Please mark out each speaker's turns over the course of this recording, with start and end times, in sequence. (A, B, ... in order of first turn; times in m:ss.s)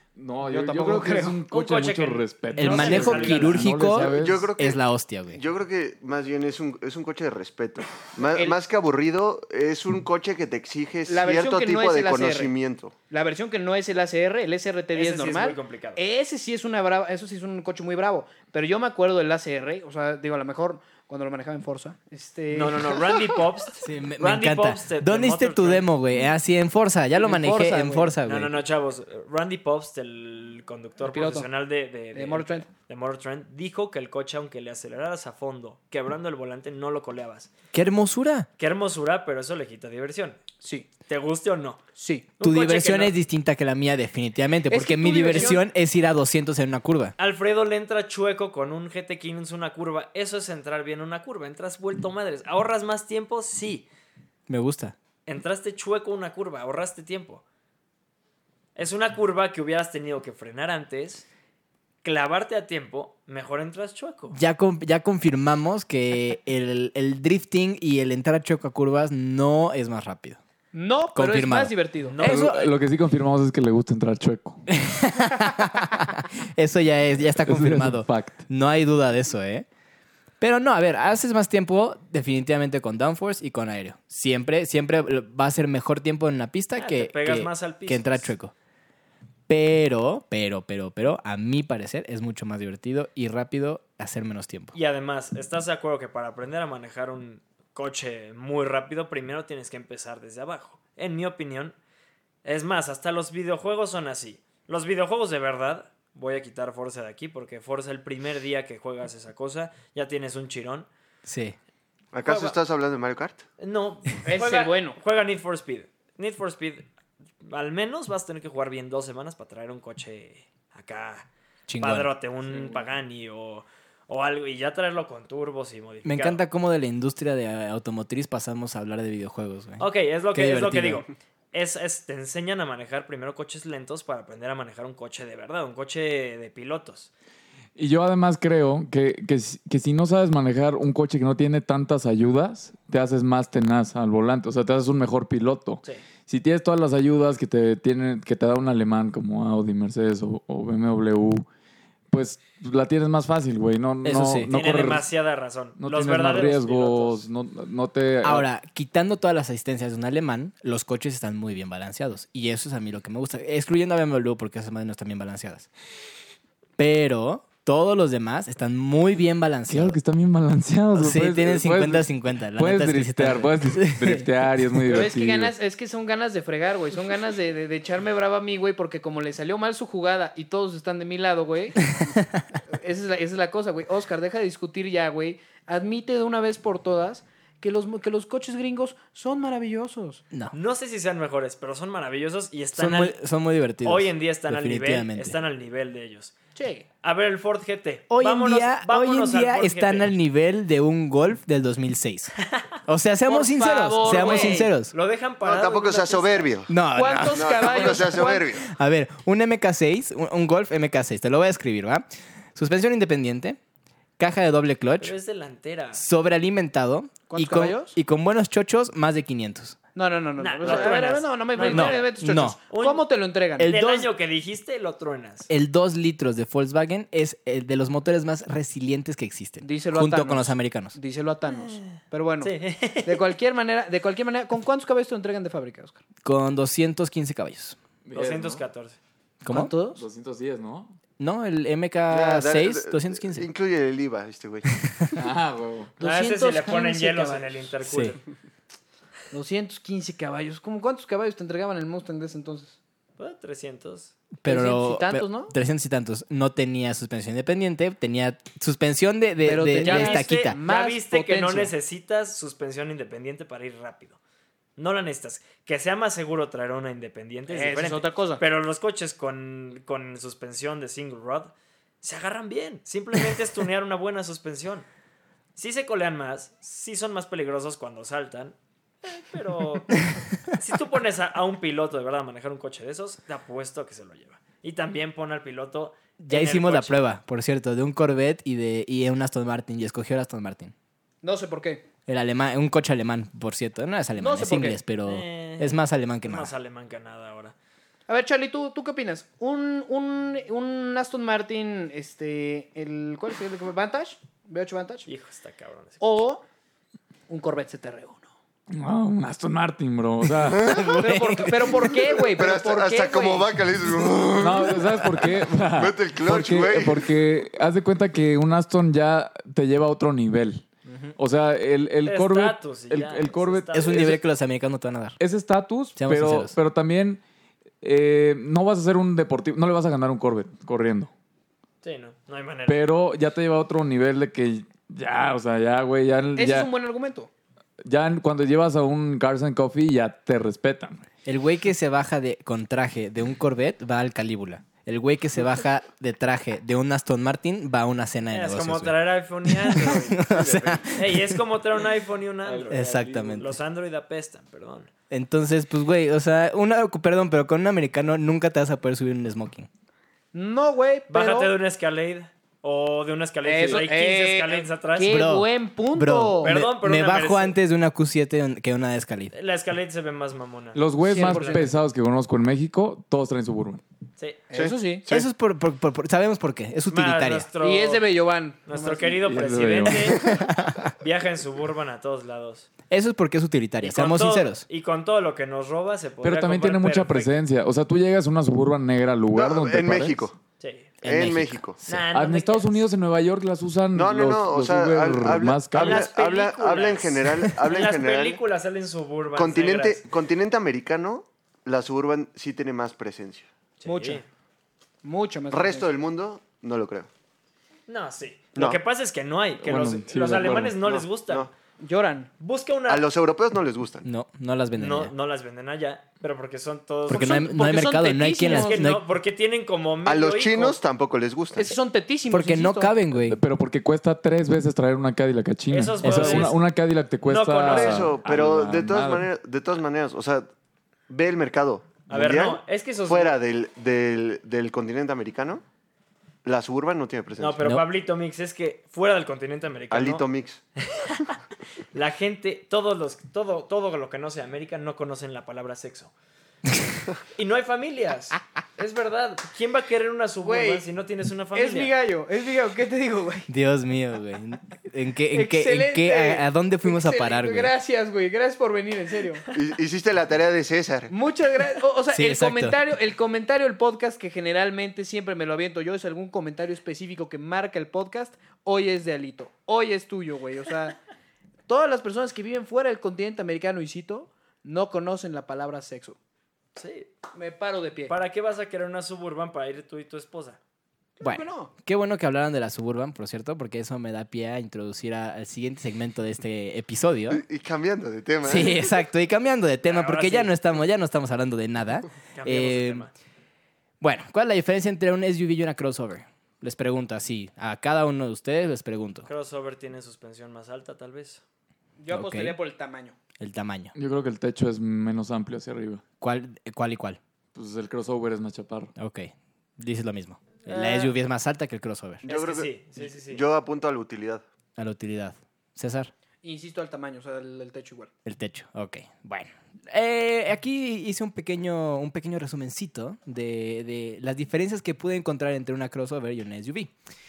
0:00.2-0:04.5 A
0:00.5-0:01.4 B
0:01.5-0:03.8 C
0:02.5-0:05.4 D
0:03.8-0:12.9 E
0:08.2-0:08.6 B
0:11.1-0:12.5 B
0:13.1-0:23.0 B
0:14.9-0:16.0 C
0:22.5-0:25.9 C
0:23.8-0:28.6 D
0:27.2-0:28.1 B
0:28.2-0:37.5 C
0:31.0-0:31.5 B
0:32.1-0:32.7 B
0:37.7-0:38.5 D
0:38.6-0:40.4 C
0:40.6-0:40.9 B
0:41.1-0:41.8 C
0:42.0-0:42.3 B
0:42.4-0:43.1 C
0:42.4-0:47.1 D
0:44.7-0:45.6 B
0:45.3-0:45.6 C
0:47.2-0:53.9 C
0:54.5-0:55.0 D
0:55.3-0:57.4 C
0:58.8-1:01.3 C
1:02.0-1:04.4 C
1:04.3-1:10.4 D
1:10.7-1:12.2 B
1:11.2-1:12.5 D
1:12.1-1:12.7 C
1:12.2-1:14.6 A
1:14.7-1:19.6 D
1:17.4-1:18.4 A
1:20.4-1:28.5 D
1:26.8-1:28.3 C
1:29.5-1:34.8 D
1:34.7-1:41.8 C
1:42.4-1:50.9 C
1:51.2-1:51.6 D
1:52.1-1:53.4 E
1:52.2-1:52.6 C
1:53.6-1:56.9 C
1:54.2-1:55.0 B
1:57.4-2:01.3 C
2:01.7-2:02.1 D
2:01.8-2:06.4 C
2:06.0-2:11.0 D
2:09.8-2:17.1 C
2:17.8-2:31.5 A
2:32.1-2:35.1 A
2:34.0-2:34.5 D
2:34.5-2:37.3 C
2:35.8-2:38.5 A
2:38.2-2:45.7 D
2:46.8-2:50.0 D
2:49.7-2:55.5 A
2:51.0-2:54.3 D
2:54.9-3:01.9 B
3:02.0-3:02.4 D
3:02.7-3:10.2 B
3:10.5-3:13.2 C
3:12.8-3:15.4 D
3:13.8-3:16.4 C
3:16.6-3:16.8 B
3:17.0-3:20.1 C
3:18.1-3:22.3 D
3:22.4-3:22.7 C
3:22.9-3:24.9 D
3:23.3-3:24.7 B
3:24.0-3:26.6 C
3:25.4-3:26.8 E
3:26.7-3:33.6 D
3:26.9-3:28.5 B
3:27.3-3:28.7 E
3:34.2-3:35.2 D
3:35.0-3:36.0 C
3:35.9-3:39.8 D
3:37.3-3:38.0 B
3:40.0-3:43.8 B
3:40.4-3:43.1 C
3:40.7-3:40.9 D
3:41.6-3:42.6 D
3:43.6-3:44.1 D
3:43.6-3:45.5 C
3:45.5-3:51.0 D
3:49.6-3:52.5 B
3:51.5-3:53.2 C
3:53.0-3:56.0 B
3:56.2-3:57.8 D
3:58.0-3:58.6 A
3:58.1-3:59.0 C
3:59.4-3:59.7 D
3:59.5-4:00.0 B
3:59.9-4:01.0 A
4:01.2-4:03.5 D
4:02.1-4:04.8 E
4:04.8-4:05.2 D
4:05.2-4:05.9 A
4:06.0-4:07.7 B
4:06.0-4:08.2 C
4:07.8-4:08.2 D
4:09.3-4:12.8 B
4:13.2-4:14.2 C
4:14.4-4:20.6 D
4:14.4-4:15.5 B
4:19.4-4:21.7 B
4:19.8-4:24.2 C
4:24.8-4:34.9 C
4:27.5-4:28.4 B
4:35.6-4:47.0 C
4:46.2-4:50.7 D
4:51.2-4:51.8 B
4:52.1-4:56.5 D
4:54.2-4:54.8 B
4:55.1-4:57.5 C
4:58.1-5:05.1 B
5:05.1-5:06.0 C
5:06.0-5:06.4 B
5:07.3-5:08.3 B
5:08.7-5:10.9 A
5:10.5-5:10.9 E
5:10.5-5:11.9 D
5:11.0-5:13.5 B
5:12.3-5:17.1 E
5:14.4-5:24.2 A
5:20.9-5:21.1 D
5:22.0-5:24.2 C
5:23.7-5:25.2 D
5:25.2-5:27.2 A
5:26.0-5:26.6 D
5:27.8-5:31.1 A
5:31.8-5:32.8 C
5:32.7-5:36.7 A
5:36.4-5:37.3 B
5:37.8-5:41.1 A
5:41.2-5:51.3 D
5:48.3-5:50.3 C
5:50.2-5:50.7 A
5:50.5-5:50.8 E
5:50.9-5:54.9 C
5:52.4-5:53.5 A
5:52.7-5:53.6 D
5:55.1-5:59.7 D
6:00.3-6:01.5 B
6:01.1-6:05.3 C
6:03.4-6:06.5 B
6:05.1-6:09.3 D
6:06.4-6:07.6 C
6:09.3-6:11.6 C
6:10.8-6:13.8 A
6:11.0-6:11.7 B
6:14.5-6:15.1 B
6:14.5-6:15.3 E
6:15.1-6:17.5 D
6:16.9-6:18.1 C
6:17.6-6:19.2 B
6:18.7-6:20.3 C
6:19.2-6:20.3 A
6:20.4-6:20.8 D
6:21.0-6:22.7 C
6:22.9-6:24.6 D
6:23.8-6:27.3 C
6:26.2-6:30.2 A
6:29.3-6:30.4 E
6:30.6-6:30.9 C
6:31.0-6:32.0 D
6:31.0-6:31.8 E
6:31.8-6:32.8 C
6:32.1-6:36.1 A
6:33.9-6:38.4 E
6:35.7-6:40.1 C
6:39.4-6:43.5 E
6:43.8-6:44.2 C
6:43.8-6:44.2 B
6:45.0-6:45.9 B
6:45.5-6:47.1 E
6:47.9-6:51.5 C
6:49.6-6:50.8 A
6:50.4-6:51.5 E
6:51.8-6:52.3 B
6:52.4-6:53.0 C
6:52.9-6:54.1 E
6:54.0-6:55.1 D
6:54.8-6:57.5 C
6:57.1-6:59.0 D
6:57.1-6:58.8 B
6:58.4-7:00.8 C
7:00.0-7:01.8 E
7:01.6-7:03.0 B
7:02.3-7:03.4 D
7:03.2-7:09.3 A
7:05.7-7:06.6 C
7:06.0-7:06.5 D
7:07.2-7:08.2 C
7:07.6-7:10.5 E
7:11.1-7:15.6 E
7:12.1-7:13.4 C
7:16.4-7:17.6 E
7:17.4-7:20.3 C
7:19.9-7:20.6 E
7:20.8-7:21.4 C
7:21.9-7:26.1 C
7:27.4-7:31.9 C
7:30.4-7:30.9 B
7:31.5-7:33.5 B
7:33.5-7:37.7 D
7:35.3-7:39.4 B
7:39.5-7:41.1 E
7:41.1-7:51.0 B
7:42.1-7:42.8 D
7:51.7-7:56.2 B
7:56.8-7:57.1 C
7:57.3-7:58.2 B
7:58.1-8:00.6 C
8:01.2-8:01.7 B
8:01.2-8:07.4 D
8:07.3-8:09.0 E
8:08.4-8:13.1 D
8:09.8-8:10.5 C
8:12.4-8:13.1 C
8:14.0-8:19.3 D
8:19.3-8:21.4 C
8:22.0-8:23.2 B
8:22.1-8:22.6 D
8:23.4-8:23.9 D
8:24.0-8:26.0 A
8:26.2-8:27.2 D
8:27.6-8:28.9 A
8:29.0-8:32.3 D
8:30.7-8:31.1 C
8:32.2-8:34.4 E
8:32.3-8:33.4 C
8:34.8-8:36.1 D
8:36.4-8:38.1 B
8:38.3-8:46.9 D